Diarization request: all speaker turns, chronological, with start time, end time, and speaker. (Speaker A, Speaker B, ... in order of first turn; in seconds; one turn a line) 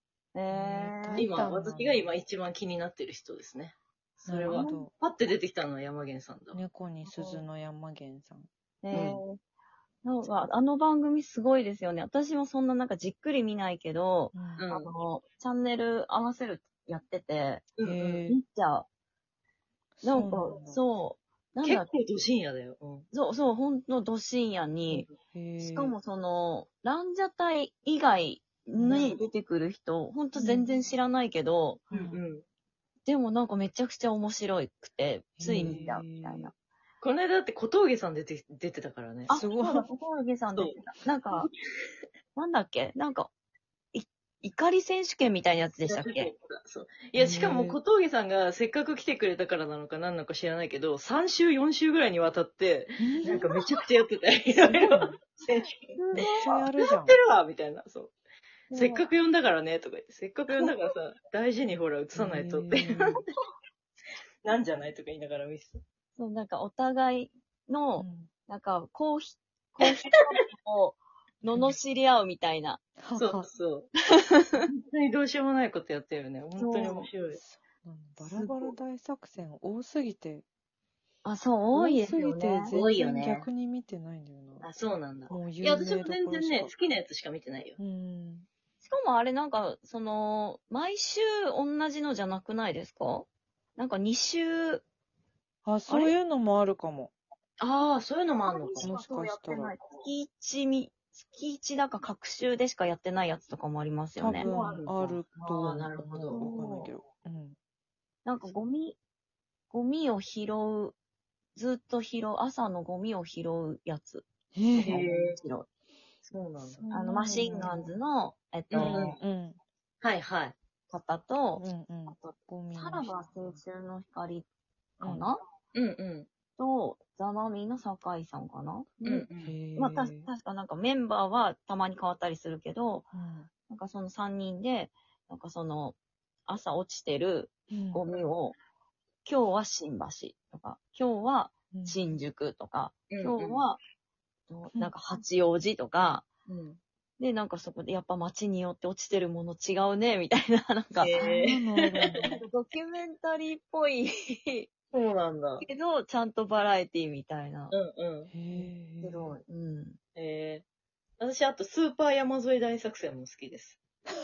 Speaker A: 0.3-1.3
Speaker B: 0.5-2.1
Speaker C: 1.1-6.6
Speaker B: 4.2-4.9
Speaker A: 4.5-4.8
Speaker B: 6.5-8.5
Speaker A: 7.0-7.4
Speaker A: 8.8-9.4
Speaker C: 8.9-9.2
Speaker A: 10.0-17.7
Speaker B: 14.3-14.7
Speaker C: 14.6-14.9
Speaker C: 17.8-18.2
Speaker B: 17.8-18.4
Speaker A: 18.3-18.9
Speaker B: 20.0-20.8
Speaker A: 20.0-21.9
Speaker C: 21.6-23.1
Speaker A: 23.1-25.1
Speaker B: 25.3-25.9
Speaker A: 25.6-32.0
Speaker B: 28.8-29.1
Speaker C: 28.9-29.2
Speaker B: 30.4-30.7
Speaker B: 31.9-32.2
Speaker C: 31.9-32.4
Speaker A: 33.0-36.5
Speaker B: 35.4-36.5
Speaker C: 35.5-35.8
Speaker C: 37.0-39.4
Speaker A: 39.3-41.5
Speaker B: 39.3-39.9
Speaker C: 40.5-40.8
Speaker A: 42.3-43.3
Speaker A: 43.9-46.3
Speaker C: 45.9-58.1
Speaker B: 47.2-47.8
Speaker B: 53.0-53.4
Speaker B: 54.7-55.1
Speaker A: 56.0-56.3
Speaker B: 56.1-57.2
Speaker A: 58.7-59.1
Speaker C: 58.7-63.2
Speaker B: 62.1-63.2
Speaker C: 64.4-65.8
Speaker A: 66.2-72.8
Speaker B: 68.0-68.3
Speaker C: 69.8-70.2
Speaker B: 73.0-73.5
Speaker C: 73.2-73.9
Speaker A: 74.1-74.4
Speaker C: 74.6-77.4
Speaker A: 76.6-77.1
Speaker B: 77.3-80.5
Speaker C: 78.2-78.7
Speaker A: 81.2-82.7
Speaker B: 81.7-84.7
Speaker C: 82.7-83.5
Speaker C: 84.6-87.8
Speaker B: 85.3-86.7
Speaker B: 87.8-88.5
Speaker A: 88.8-94.8
Speaker B: 95.6-97.1
Speaker A: 95.9-96.1
Speaker C: 97.6-98.9
Speaker A: 98.4-104.5
Speaker B: 98.8-99.7
Speaker B: 104.2-107.6
Speaker C: 104.3-106.5
Speaker A: 106.3-106.9
Speaker A: 108.2-109.0
Speaker A: 109.7-111.0
Speaker A: 111.5-114.2
Speaker B: 114.5-115.0
Speaker C: 114.7-115.4
Speaker A: 114.8-115.7
Speaker C: 116.2-116.9
Speaker B: 116.6-117.8
Speaker A: 116.9-119.2
Speaker C: 118.7-119.2
Speaker B: 118.7-119.6
Speaker C: 120.0-120.5
Speaker A: 120.9-124.5
Speaker B: 121.6-123.6
Speaker A: 125.0-125.4
Speaker B: 125.0-125.3
Speaker C: 125.7-126.3
Speaker A: 126.6-133.1
Speaker C: 129.0-129.6
Speaker B: 129.4-130.3
Speaker B: 133.1-133.5
Speaker A: 133.7-138.6
Speaker B: 137.7-138.0
Speaker A: 139.2-143.8
Speaker B: 141.7-142.0
Speaker C: 143.1-143.6
Speaker A: 144.5-146.2
Speaker C: 146.5-146.8
Speaker A: 147.2-151.3
Speaker C: 150.9-151.8
Speaker B: 151.1-152.4
Speaker A: 152.2-154.7
Speaker C: 154.9-155.6
Speaker A: 155.6-157.8
Speaker C: 157.7-159.4
Speaker B: 158.3-159.3
Speaker A: 159.0-160.0
Speaker C: 160.1-160.6
Speaker C: 161.2-163.8